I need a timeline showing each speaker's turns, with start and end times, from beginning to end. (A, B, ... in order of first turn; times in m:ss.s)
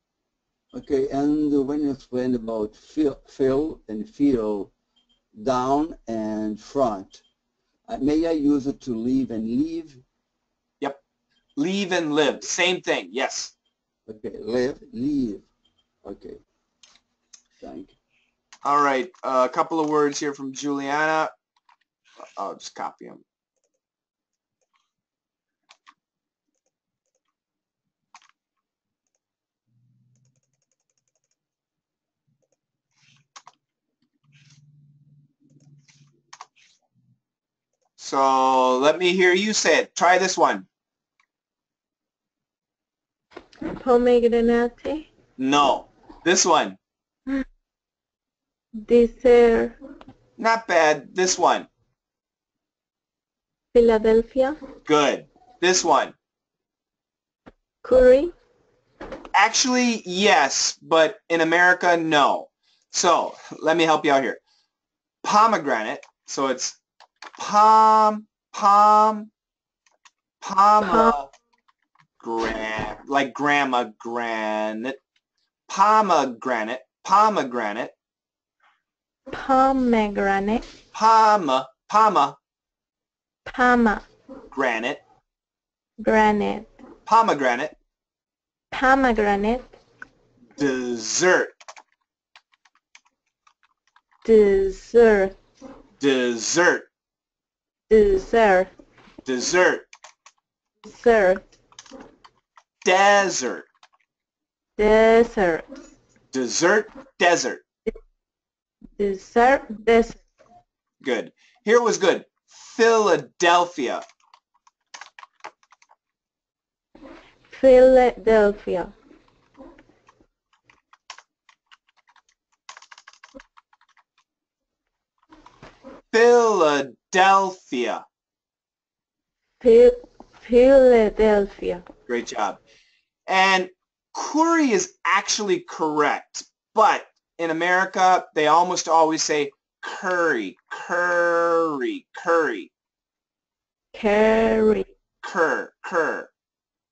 0:00.7-0:04.7 A
0:05.3-0:07.2 A
0:07.9-0:10.0 A
0:11.6-0:13.5 B
0:14.1-0:15.4 A
0:16.0-0:16.4 A
0:17.6-0:17.9 A
0:18.6-0:21.3 B
0:22.4-0:23.2 B
0:38.0-0:40.6 B
0:43.6-0:45.1 C
0:45.4-0:46.8 B
0:48.8-0:49.8 C
0:50.4-0:51.7 B
0:53.7-0:54.6 C
0:54.8-0:56.1 B
0:57.8-0:58.3 C
0:59.3-1:04.4 B
1:05.2-1:06.8 B
1:07.4-1:09.3 B
1:10.4-1:11.3 B
1:10.8-1:11.1 C
1:12.2-1:15.0 B
1:15.7-1:17.9 B
1:19.3-1:20.6 C
1:20.9-1:22.4 B
1:23.4-1:24.0 C
1:24.5-1:25.0 B
1:26.0-1:26.7 C
1:27.0-1:27.7 B
1:28.7-1:29.7 C
1:30.6-1:31.5 B
1:34.2-1:35.3 C
1:36.0-1:36.9 B
1:37.9-1:38.7 C
1:39.2-1:39.9 B
1:40.8-1:41.4 C
1:42.8-1:43.6 B
1:44.8-1:45.8 C
1:46.3-1:47.6 B
1:49.0-1:50.2 C
1:51.0-1:54.0 B
1:57.5-1:58.9 C
2:06.1-2:08.0 B
2:09.6-2:11.8 C
2:12.1-2:12.6 B
2:13.3-2:22.7 B
2:23.9-2:24.9 C
2:25.2-2:26.3 B